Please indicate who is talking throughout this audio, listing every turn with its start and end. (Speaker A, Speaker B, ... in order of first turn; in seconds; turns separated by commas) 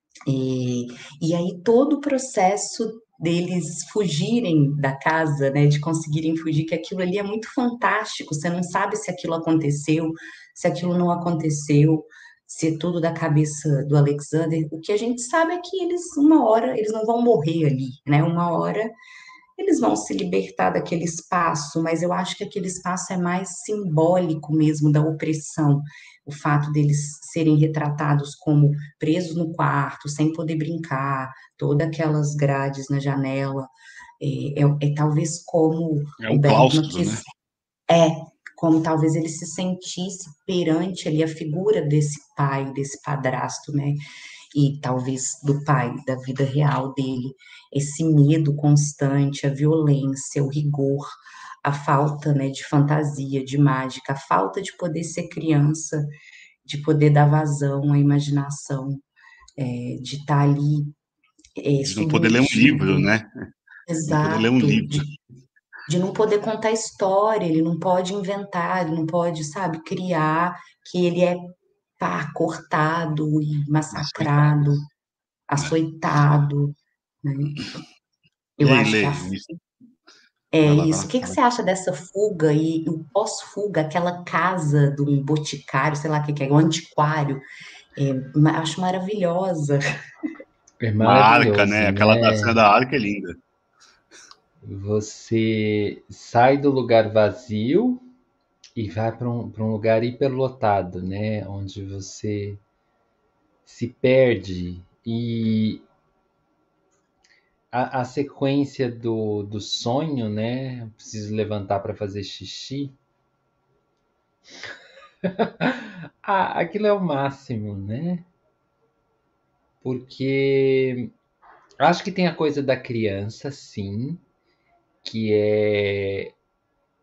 Speaker A: 0.3-18.9, Speaker A: 19.6-37.2, Speaker B: 36.2-37.2, Speaker A: 37.9-44.0, Speaker A: 44.5-56.1, Speaker A: 56.6-59.0, Speaker A: 59.6-60.9, Speaker A: 61.5-63.1, Speaker B: 61.8-63.3, Speaker A: 63.9-65.1, Speaker B: 64.1-65.1, Speaker A: 65.9-74.9, Speaker B: 73.9-74.7, Speaker A: 75.5-77.6, Speaker A: 78.6-79.3, Speaker B: 78.6-79.6, Speaker A: 80.5-87.4, Speaker B: 80.6-81.4, Speaker A: 88.0-89.8, Speaker C: 90.8-92.6, Speaker B: 91.0-93.4, Speaker C: 94.6-98.1, Speaker C: 98.8-102.6, Speaker C: 103.7-105.8, Speaker C: 107.7-113.0, Speaker C: 115.2-118.3, Speaker C: 119.8-121.1, Speaker C: 121.8-124.2, Speaker C: 125.0-126.3